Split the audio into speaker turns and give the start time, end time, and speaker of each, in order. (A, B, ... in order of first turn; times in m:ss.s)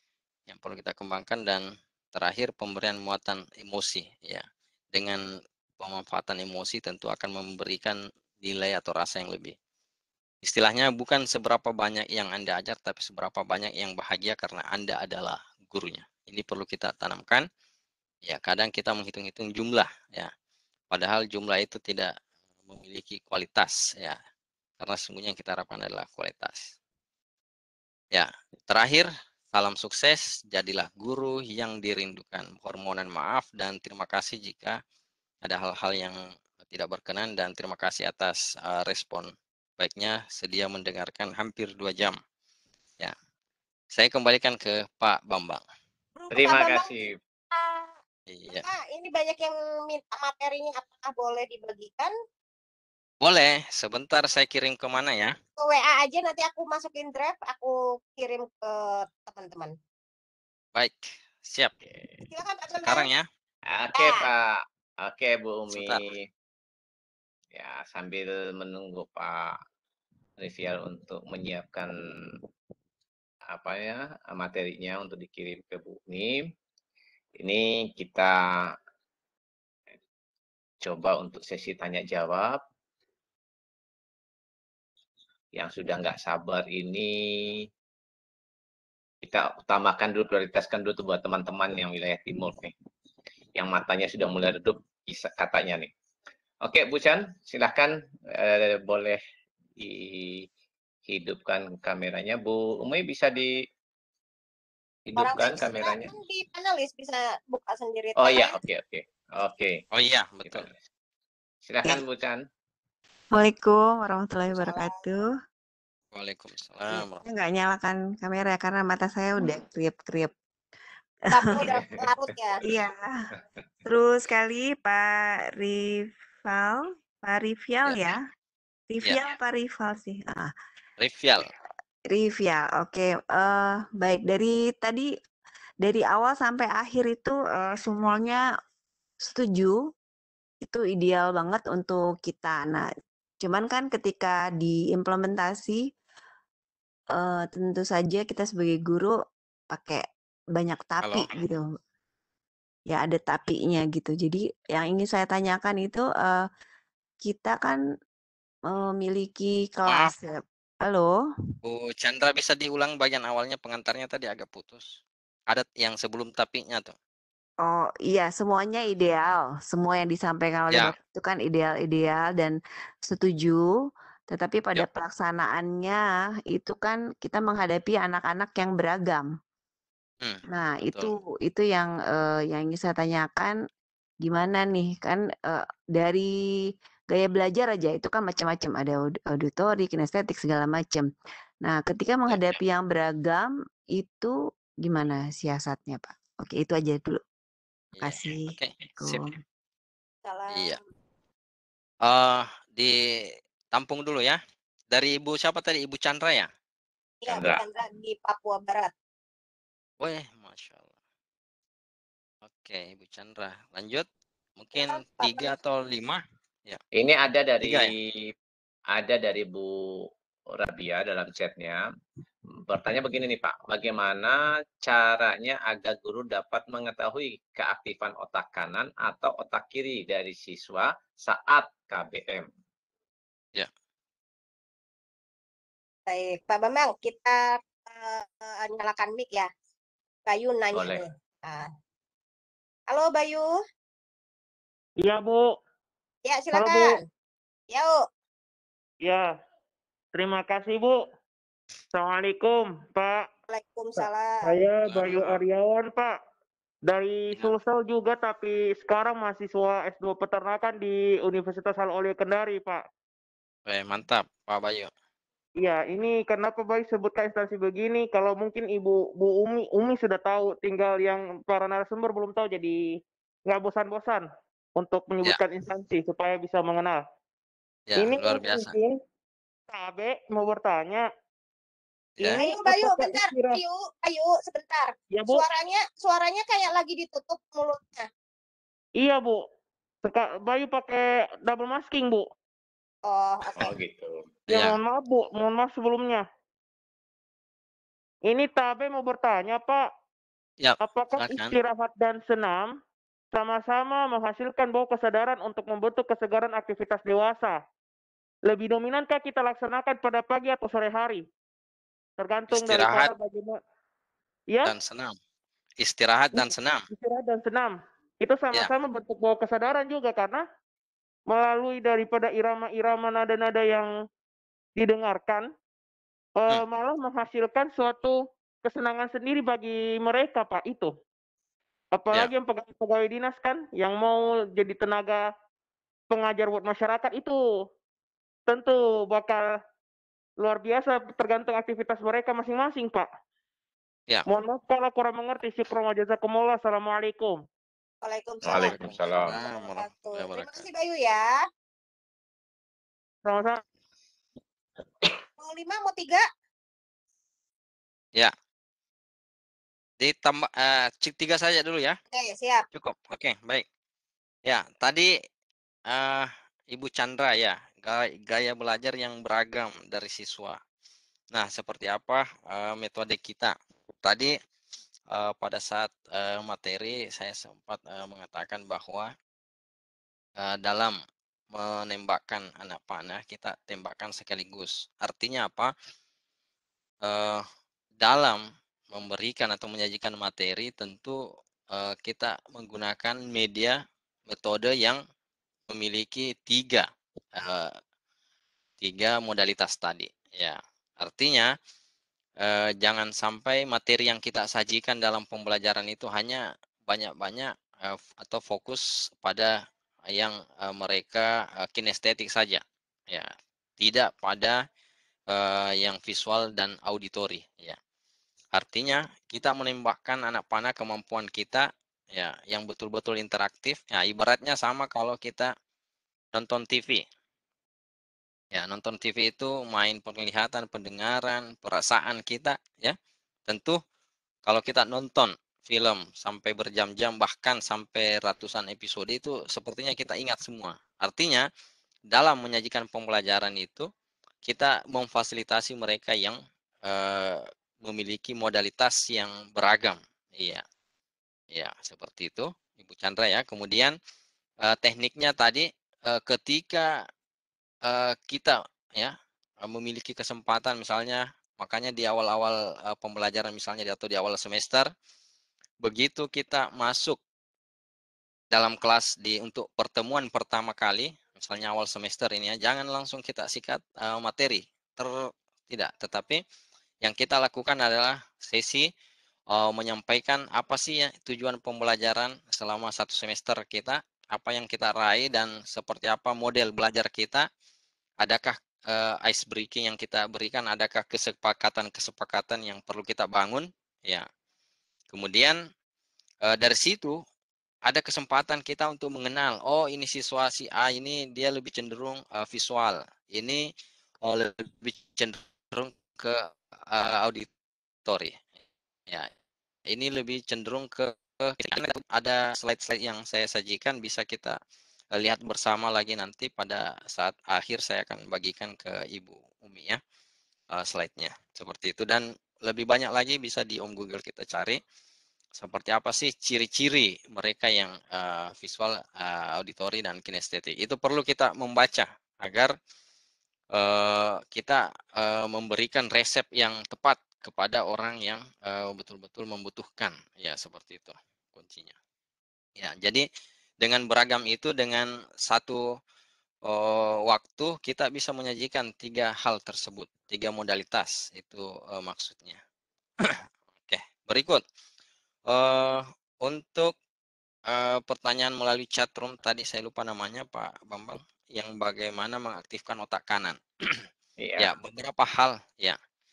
0:00.5-0:05.2 A
0:05.8-0:09.5 A
0:10.4-0:17.4 A
0:18.2-0:20.3 A
0:20.9-0:22.1 A
0:22.7-0:24.2 A
0:24.8-0:26.7 A
0:28.1-0:34.8 A
0:35.4-0:42.2 A
0:43.9-0:45.6 A
0:46.2-0:46.9 B
0:46.3-0:47.1 C
0:47.5-0:47.9 B
0:48.3-0:48.6 A
0:48.5-0:52.1 B
0:53.2-0:55.3 A
0:55.6-0:59.7 B
1:00.8-1:01.7 A
1:01.8-1:02.2 C
1:02.3-1:03.1 B
1:02.8-1:03.2 A
1:03.7-1:04.5 C
1:04.0-1:04.2 B
1:05.0-1:06.2 C
1:05.7-1:06.0 A
1:07.5-1:09.5 C
1:10.4-1:11.9 C
1:13.5-1:16.4 C
1:17.4-1:18.7 C
1:20.8-1:22.6 C
1:25.5-1:27.6 C
1:29.2-1:32.7 C
1:33.6-1:35.9 C
1:36.6-1:39.2 C
1:39.8-1:40.4 C
1:41.1-1:43.5 C
1:45.1-1:46.1 C
1:45.2-1:48.5 B
1:48.2-1:49.8 C
1:49.9-1:50.7 A
1:50.5-1:50.7 C
1:51.7-1:52.4 C
1:53.3-1:55.2 D
1:54.5-1:55.0 B
1:56.1-1:57.2 A
1:56.9-2:00.3 D
2:01.3-2:02.6 B
2:01.3-2:01.6 D
2:02.6-2:03.0 D
2:03.8-2:05.8 D
2:06.4-2:08.2 D
2:07.8-2:08.1 A
2:08.9-2:10.5 D
2:11.0-2:11.4 A
2:12.1-2:15.1 D
2:15.8-2:18.4 D
2:19.2-2:19.8 D
2:20.6-2:22.9 D
2:23.4-2:25.8 D
2:27.1-2:29.2 D
2:29.7-2:31.6 D
2:31.0-2:31.4 A
2:32.9-2:36.4 D
2:37.2-2:37.8 D
2:38.7-2:41.2 D
2:39.8-2:40.1 A
2:41.6-2:45.0 A
2:45.5-2:46.9 A
2:47.6-2:52.6 D
2:53.1-2:53.7 D
2:54.3-2:59.3 D
3:00.5-3:03.6 D
3:04.2-3:06.3 D
3:07.1-3:11.1 D
3:11.6-3:14.3 D
3:12.3-3:12.6 A
3:14.8-3:17.2 D
3:17.9-3:19.3 A
3:18.0-3:19.4 D
3:20.2-3:20.8 B
3:22.0-3:24.4 A
3:24.9-3:26.5 A
3:27.2-3:28.9 B
3:27.3-3:27.6 C
3:30.0-3:30.9 A
3:32.4-3:34.1 A
3:34.6-3:36.8 A
3:34.8-3:35.5 B
3:37.0-3:38.2 C
3:37.6-3:37.9 A
3:38.9-3:39.7 C
3:40.5-3:41.8 C
3:42.7-3:52.5 C
3:56.1-3:59.5 B
4:00.3-4:01.7 B
4:00.7-4:01.0 C
4:02.9-4:03.5 B
4:05.0-4:05.5 E
4:06.2-4:06.9 B
4:06.5-4:07.0 E
4:09.0-4:09.3 E
4:10.1-4:11.0 E
4:11.9-4:13.3 E
4:13.5-4:14.4 B
4:14.0-4:16.1 E
4:14.8-4:15.4 A
4:16.9-4:22.8 E
4:23.7-4:24.9 A
4:25.6-4:32.8 E
4:33.5-4:34.2 E
4:34.8-4:37.0 E
4:37.9-4:38.7 A
4:38.0-4:39.0 E
4:39.7-4:41.0 E
4:42.2-4:43.6 E
4:42.4-4:48.1 B
4:45.1-4:45.4 E
4:49.0-4:49.4 E
4:50.0-4:52.3 E
4:53.1-4:53.7 B
4:53.6-4:54.2 C
4:54.5-4:54.8 A
4:54.5-4:56.2 E
4:58.2-4:59.9 E
5:00.6-5:01.5 A
5:00.8-5:02.7 E
5:03.3-5:07.6 E
5:08.5-5:11.2 E
5:12.2-5:13.6 E
5:12.5-5:13.1 A
5:14.6-5:15.2 A
5:15.8-5:16.9 A
5:16.4-5:20.4 E
5:21.3-5:23.9 E
5:24.8-5:25.5 E
5:26.4-5:30.9 E
5:31.9-5:35.2 E
5:36.1-5:37.4 E
5:38.5-5:39.4 E
5:40.4-5:43.1 E
5:44.3-5:47.4 E
5:48.0-5:48.7 B
5:48.4-5:49.4 C
5:48.5-5:50.6 A
5:49.2-5:51.4 B
5:53.2-5:53.6 E
5:55.4-5:56.2 B
6:00.0-6:02.0 A
6:02.1-6:02.6 B
6:02.7-6:03.6 A
6:04.5-6:05.1 A
6:05.9-6:10.6 A
6:11.3-6:14.3 A
6:15.1-6:19.1 A
6:20.4-6:21.0 A
6:21.5-6:25.7 A
6:27.0-6:27.4 A
6:28.0-6:28.4 A
6:28.9-6:31.2 A
6:31.7-6:33.8 A
6:34.3-6:35.0 A
6:35.7-6:37.7 A
6:38.8-6:41.5 A
6:42.4-6:49.5 A
6:50.1-6:54.6 A
6:55.3-6:57.8 A
6:58.6-7:05.5 A
7:06.3-7:07.0 A
7:08.5-7:13.0 A
7:13.5-7:13.8 A
7:14.4-7:21.4 A
7:22.1-7:23.9 A
7:24.4-7:30.6 A
7:31.5-7:33.9 A
7:34.6-7:36.9 A
7:37.8-7:44.9 A
7:45.8-7:47.2 A
7:48.5-7:55.2 A
7:55.7-7:56.4 A
7:57.0-7:58.9 A
7:59.5-8:07.4 A
8:08.2-8:14.2 A
8:15.1-8:15.6 A
8:16.5-8:17.2 A
8:17.8-8:23.7 A
8:24.2-8:27.5 A
8:28.1-8:28.5 A
8:29.9-8:34.6 A
8:35.2-8:40.0 A
8:40.7-8:44.8 A
8:45.6-8:52.7 A
8:53.7-9:01.9 A
9:02.8-9:03.2 A
9:03.8-9:05.8 A
9:06.7-9:12.6 A
9:13.9-9:14.6 A
9:15.5-9:16.9 A
9:17.7-9:24.0 A
9:24.4-9:24.7 C
9:24.6-9:26.0 A